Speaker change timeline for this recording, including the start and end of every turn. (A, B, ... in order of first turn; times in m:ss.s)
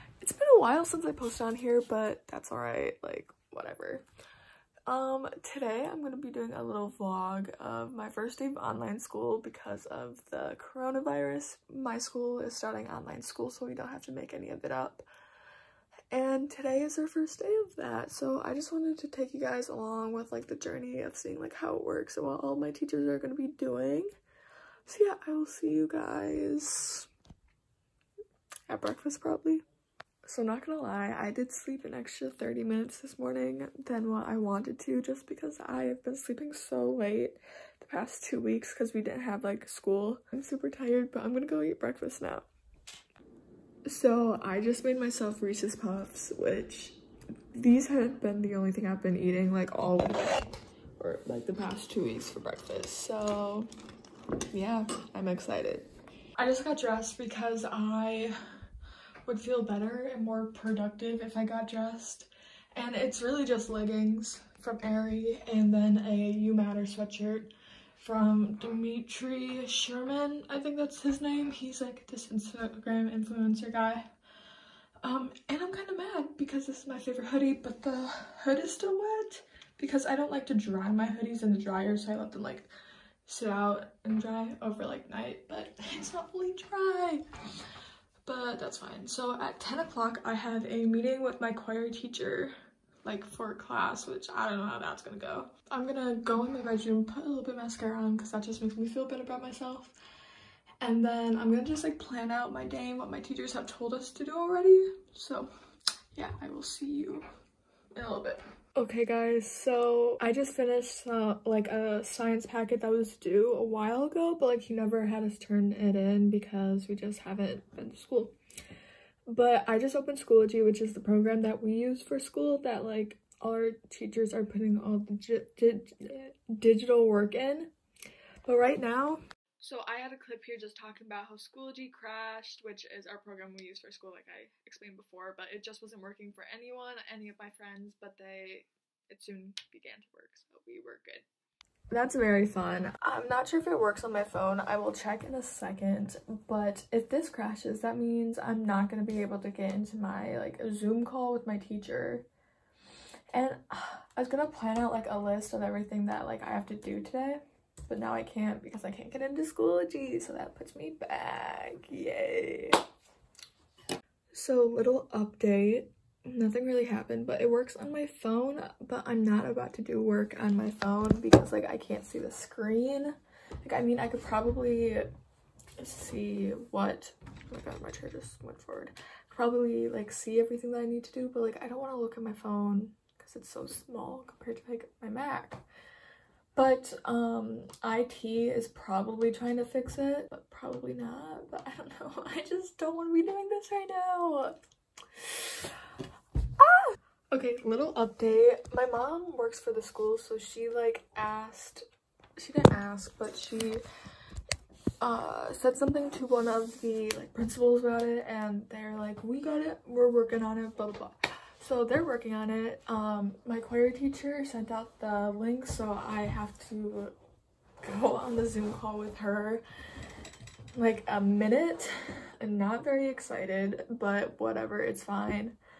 0:00.2-0:04.1 A
0:04.9-0:15.0 A
0:16.1-0:24.1 A
0:24.9-0:27.1 A
0:28.7-0:29.6 A
0:30.3-0:42.5 A
0:43.9-0:47.0 A
0:47.5-0:53.7 A
0:54.5-0:58.4 A
0:59.3-1:14.1 A
1:15.0-1:22.7 A
1:23.3-1:27.2 A
1:28.3-1:32.5 A
1:33.0-1:40.0 A
1:40.8-1:45.5 A
1:46.2-1:47.3 A
1:48.0-1:58.4 A
1:59.3-2:07.7 A
2:08.4-2:21.2 A
2:21.9-2:32.3 A
2:33.3-2:42.8 A
2:44.3-2:55.1 A
2:55.8-3:05.6 A
3:06.6-3:14.6 A
3:15.2-3:15.7 A
3:16.6-3:21.8 A
3:22.4-3:23.8 A
3:25.0-3:37.2 A
3:37.8-3:39.6 A
3:40.8-3:45.6 A